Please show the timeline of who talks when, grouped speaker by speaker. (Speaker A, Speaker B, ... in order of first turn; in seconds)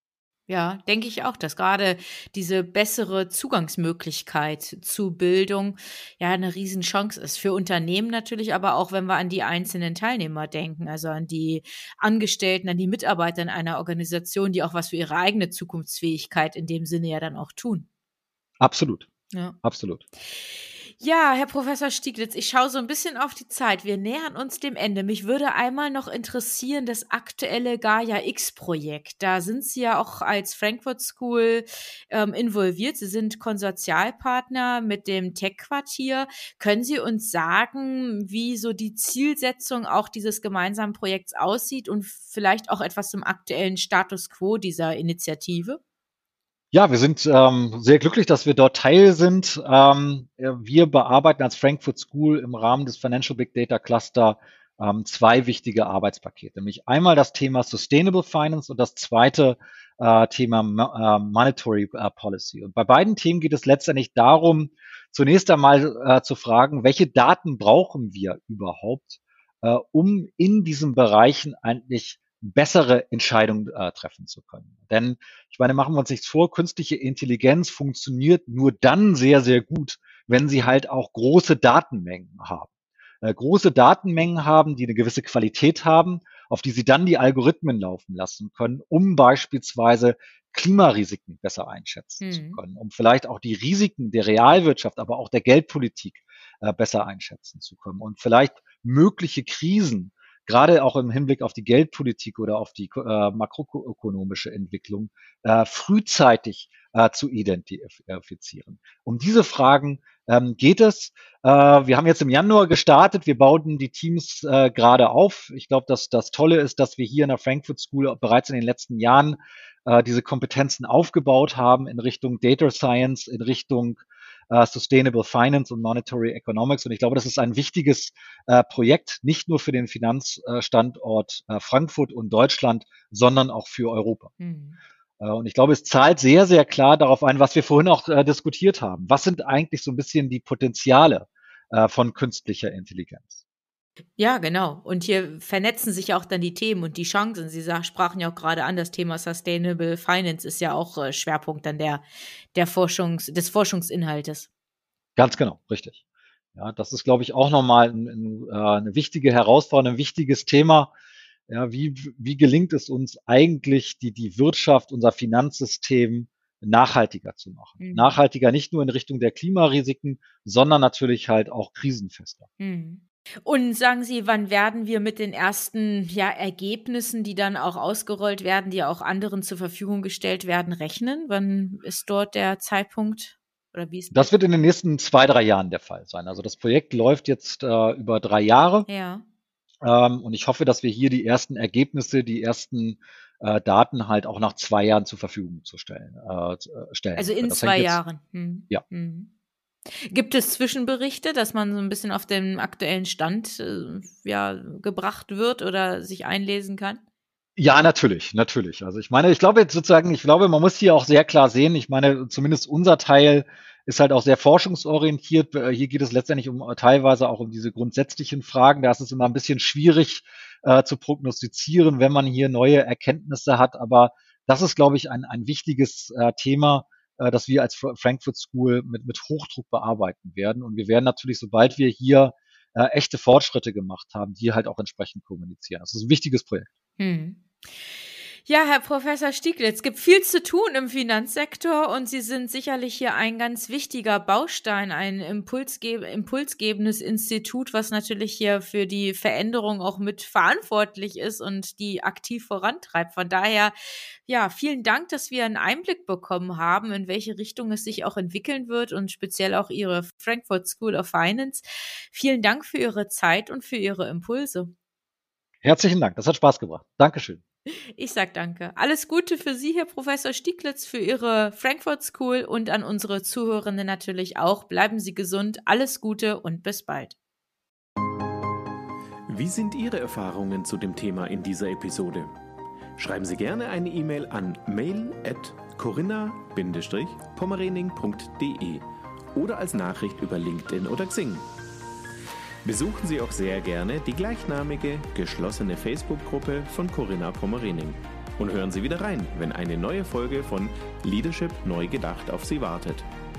Speaker A: 0.5-17.9, 20.4-45.8, 92.2-92.6, 134.4-134.8, 144.2-152.0, 152.5-154.5, 167.8-168.2, 172.6-184.3, 188.9-189.2, 197.2-199.3, 200.1-207.0, 237.0-237.9, 238.5-253.7, 254.3-264.7, 268.0-277.1
Speaker B: 18.6-19.1, 19.6-20.0, 46.7-82.7, 83.2-134.3, 135.2-143.4, 155.2-156.0, 156.6-160.9, 161.5-172.5, 184.1-188.9, 189.8-198.0, 207.6-236.7, 265.6-267.4
Speaker C: 279.3-282.3, 283.0-288.8, 289.4-291.5, 292.6-303.1